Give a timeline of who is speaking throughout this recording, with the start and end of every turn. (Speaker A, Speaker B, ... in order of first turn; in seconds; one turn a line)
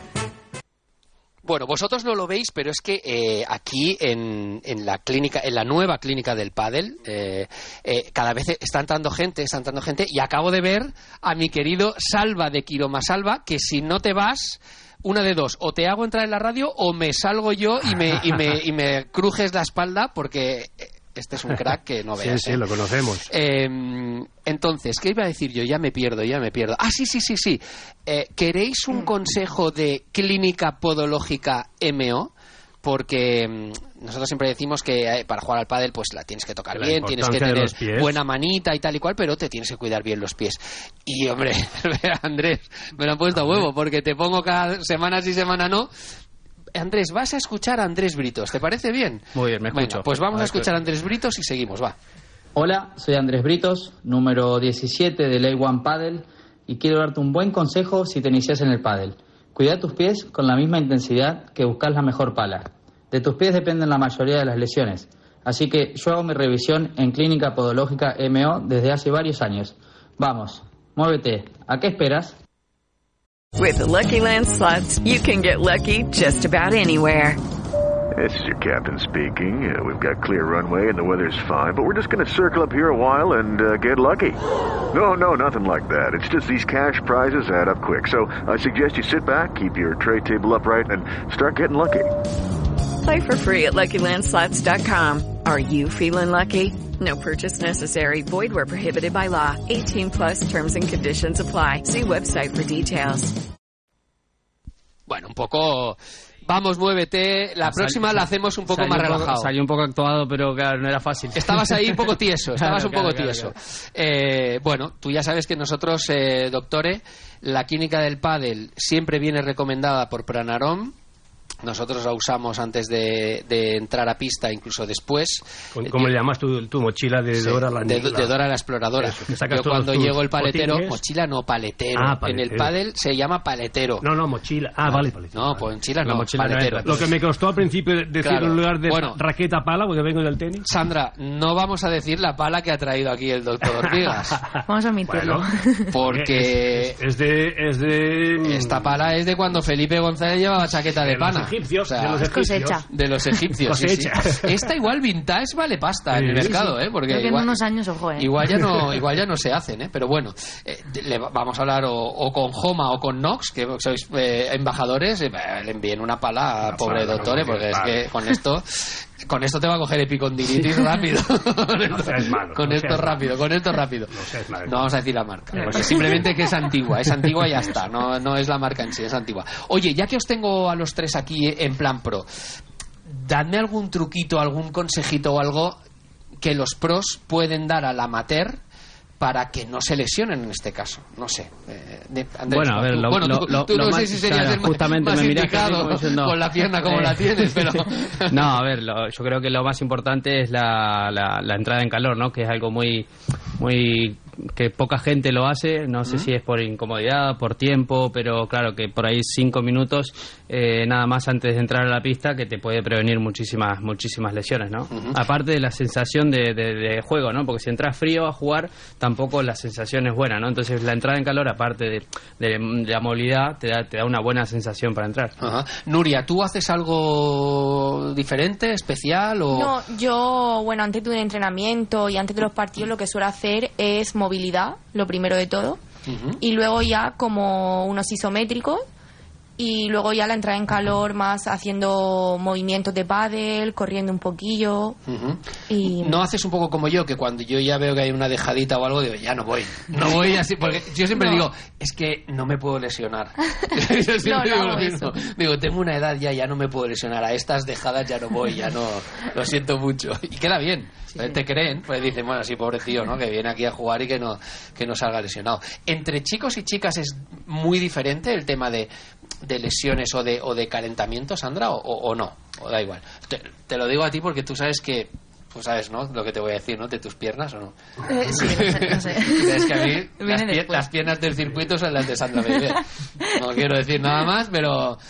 Speaker A: 1.4-22.6
Speaker B: 22.2-23.3
Speaker A: 23.3-32.3
Speaker A: 32.8-45.9
Speaker B: 36.7-38.2
Speaker B: 43.4-43.7
Speaker A: 46.8-52.0
Speaker C: 49.4-50.7
Speaker D: 52.5-72.3
Speaker E: 73.6-77.4
Speaker F: 78.2-84.4
Speaker F: 84.9-92.1
Speaker E: 93.0-103.3
Speaker A: 105.1-109.5
Speaker C: 107.6-113.5
Speaker A: 111.3-120.9
Speaker A: 121.6-126.1
Speaker B: 125.8-128.3
Speaker A: 127.4-134.1
Speaker B: 129.0-131.0
Speaker B: 132.0-132.7
Speaker B: 134.0-135.6
Speaker A: 134.9-137.1
Speaker C: 136.0-137.1
Speaker B: 136.8-140.7
Speaker A: 138.2-139.2
Speaker A: 140.7-144.4
Speaker B: 144.0-145.5
Speaker G: 144.7-145.9
Speaker A: 145.9-147.0
Speaker B: 146.1-149.0
Speaker A: 148.4-152.3
Speaker B: 151.0-152.8
Speaker G: 152.2-152.8
Speaker A: 152.9-157.6
Speaker B: 153.6-154.5
Speaker B: 156.1-156.7
Speaker G: 157.1-158.3
Speaker A: 158.2-182.3
Speaker B: 166.7-168.0
Speaker B: 171.9-173.2
Speaker B: 174.1-174.9
Speaker B: 175.5-176.5
Speaker A: 183.1-185.8
Speaker A: 186.4-188.6
Speaker A: 189.2-198.6
Speaker C: 192.5-225.3
Speaker A: 214.9-215.2
Speaker A: 225.4-229.8
Speaker H: 229.5-235.8
Speaker A: 236.1-236.4
Speaker H: 236.4-238.8
Speaker H: 239.6-245.0
Speaker A: 245.1-268.9
Speaker H: 245.7-246.2
Speaker H: 254.2-255.1
Speaker A: 269.4-285.0
Speaker G: 278.1-280.9